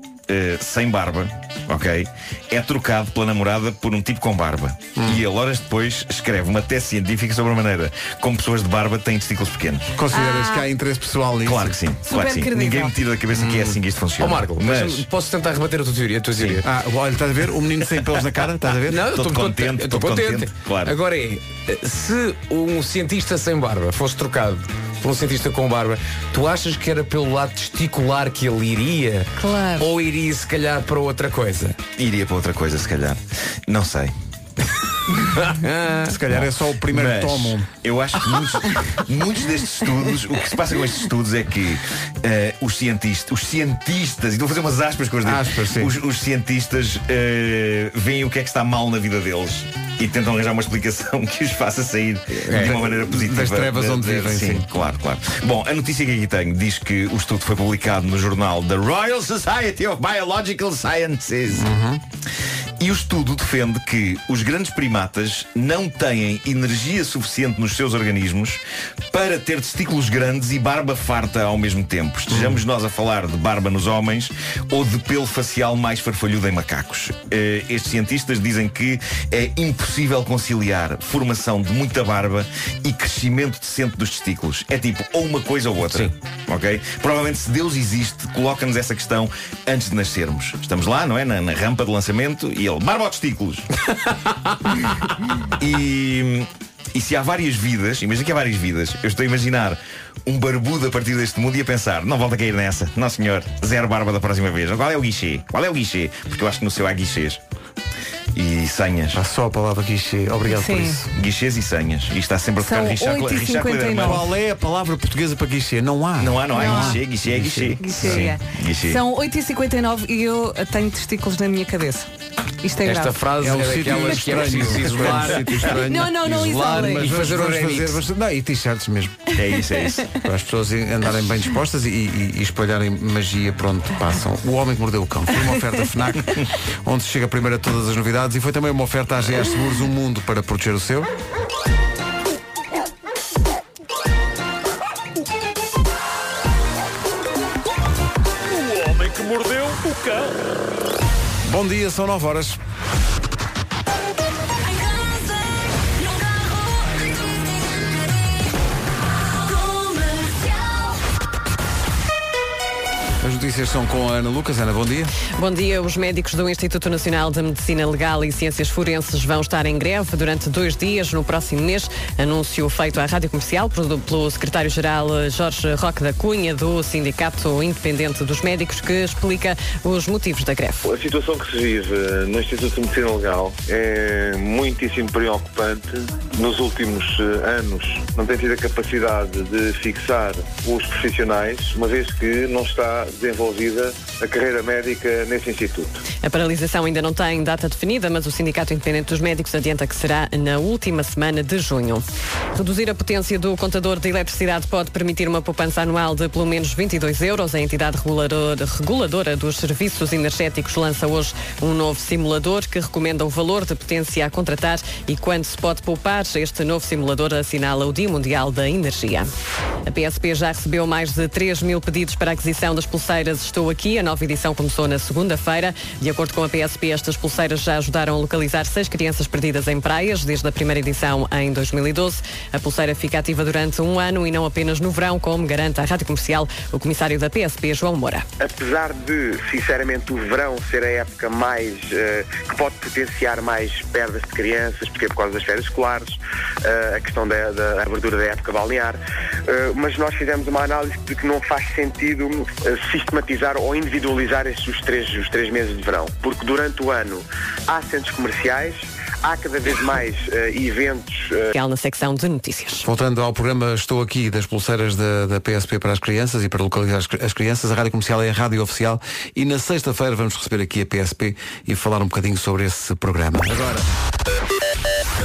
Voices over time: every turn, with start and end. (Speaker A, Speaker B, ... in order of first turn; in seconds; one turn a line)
Speaker A: 0.3-9.9
Speaker B: 5.0-5.2
Speaker B: 9.9-11.8
Speaker C: 10.1-10.7
Speaker A: 11.4-15.0
Speaker C: 12.0-13.0
Speaker D: 13.3-16.6
Speaker A: 16.4-16.6
Speaker B: 16.6-19.1
Speaker D: 18.9-31.8
Speaker A: 19.1-21.0
Speaker C: 29.4-29.9
Speaker A: 32.0-34.1
Speaker D: 35.4-36.1
Speaker B: 36.0-37.7
Speaker A: 36.3-61.7
Speaker B: 45.2-45.9
Speaker D: 52.4-52.8
Speaker B: 52.5-54.7
Speaker B: 61.5-62.0
Speaker A: 62.8-68.6
Speaker A: 69.1-93.7
Speaker B: 72.3-72.6
Speaker A: 95.6-107.4
Speaker A: 108.3-109.2
Speaker B: 109.1-111.1
Speaker C: 110.5-111.0
Speaker A: 111.1-114.2
Speaker C: 112.6-114.2
Speaker B: 114.0-118.3
Speaker A: 116.2-119.0
Speaker C: 116.5-117.0
Speaker C: 117.8-122.1
Speaker C: 122.6-123.2
Speaker D: 122.8-128.0
Speaker B: 123.4-129.3
Speaker C: 125.6-127.1
Speaker A: 129.3-130.2
Speaker C: 129.8-130.1
Speaker B: 130.2-141.1
Speaker D: 148.8-150.1
Speaker B: 151.4-152.6
Speaker B: 163.2-165.1
Speaker E: 165.4-180.8
Speaker F: 180.8-196.0
Speaker E: 196.2-219.3
Speaker E: 219.8-238.2
Speaker G: 238.4-261.5
Speaker E: 261.6-262.8
Speaker B: 262.8-273.9